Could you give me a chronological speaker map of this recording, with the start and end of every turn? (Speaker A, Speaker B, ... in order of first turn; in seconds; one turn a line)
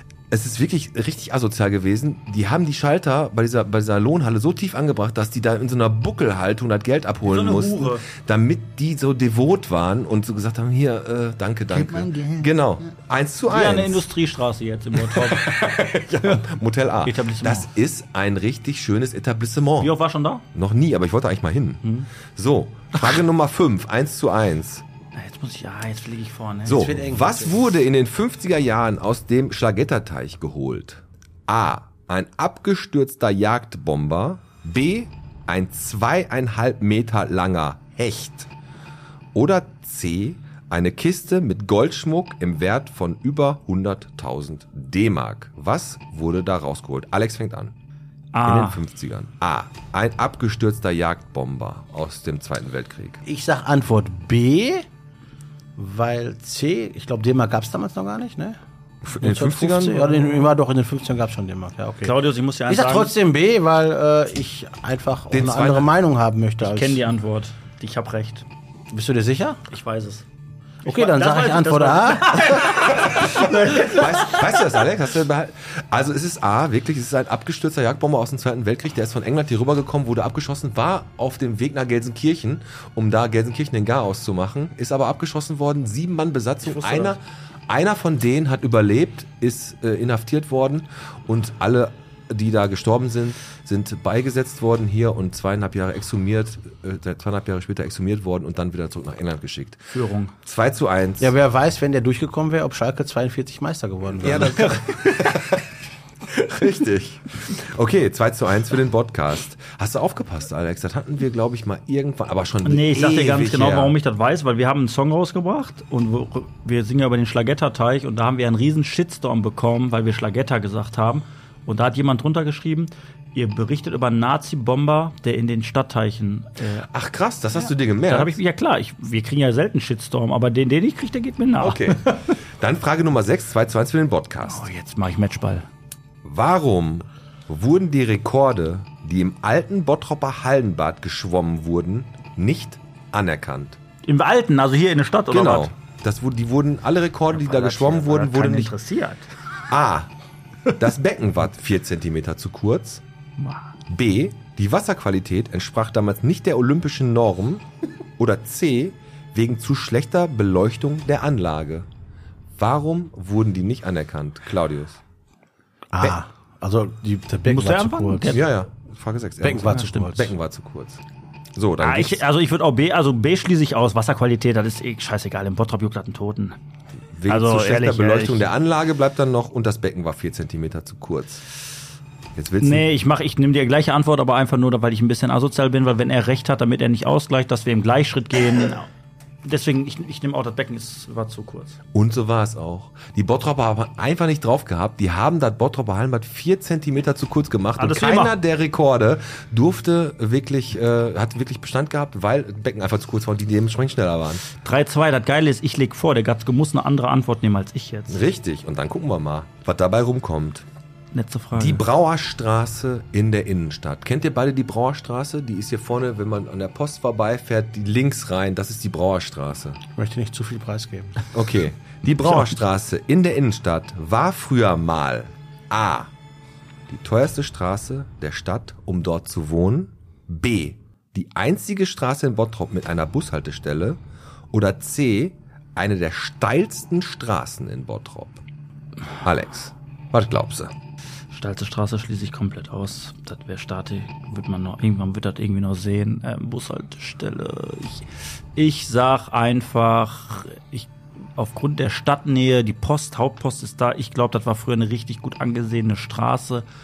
Speaker A: 0.3-14.0
Speaker B: 7.2-8.1
Speaker B: 11.7-12.4
Speaker B: 13.5-15.7
Speaker A: 15.0-19.9
Speaker B: 17.0-17.7
Speaker B: 19.8-20.4
Speaker A: 20.5-24.8
Speaker B: 25.1-26.9
Speaker A: 26.6-38.5
Speaker C: 26.7-27.6
Speaker A: 39.3-47.7
Speaker B: 48.3-48.8
Speaker A: 48.4-53.2
Speaker C: 53.2-54.8
Speaker C: 55.8-58.6
Speaker A: 59.0-60.5
Speaker C: 59.2-62.1
Speaker B: 62.0-63.1
Speaker C: 62.7-67.0
Speaker A: 65.3-65.9
Speaker B: 66.6-68.5
Speaker C: 68.9-69.6
Speaker B: 69.7-70.2
Speaker B: 70.8-74.7
Speaker C: 70.8-72.7
Speaker A: 72.9-99.8
Speaker B: 86.7-87.1
Speaker B: 99.9-100.3
Speaker A: 100.4-101.3
Speaker C: 101.2-104.8
Speaker A: 104.2-105.6
Speaker B: 104.6-105.1
Speaker A: 106.3-114.0
Speaker B: 112.6-126.9
Speaker A: 126.9-128.4
Speaker B: 128.1-132.3
Speaker A: 131.6-134.7
Speaker B: 134.4-135.7
Speaker A: 136.2-143.8
Speaker B: 144.1-145.7
Speaker A: 145.3-148.7
Speaker B: 147.3-149.3
Speaker A: 149.7-150.1
Speaker A: 150.7-153.0
Speaker B: 153.4-153.7
Speaker A: 153.9-157.7
Speaker A: 158.2-161.9
Speaker A: 162.6-165.0
Speaker C: 165.9-168.4
Speaker B: 167.4-168.4
Speaker A: 168.3-171.0
Speaker C: 169.4-170.3
Speaker A: 171.6-172.2
Speaker B: 171.8-176.6
Speaker A: 177.1-181.4
Speaker B: 177.3-178.4
Speaker A: 182.3-182.9
Speaker B: 182.6-188.9
Speaker B: 189.4-191.8
Speaker A: 191.9-204.4
Speaker B: 197.8-198.4
Speaker B: 204.6-208.2
Speaker A: 208.1-210.7
Speaker B: 211.1-211.8
Speaker A: 211.5-219.8
Speaker C: 219.9-221.2
Speaker A: 221.3-226.1
Speaker A: 226.9-234.0
Speaker A: 234.5-238.4
Speaker A: 239.2-240.7
Speaker B: 241.3-256.6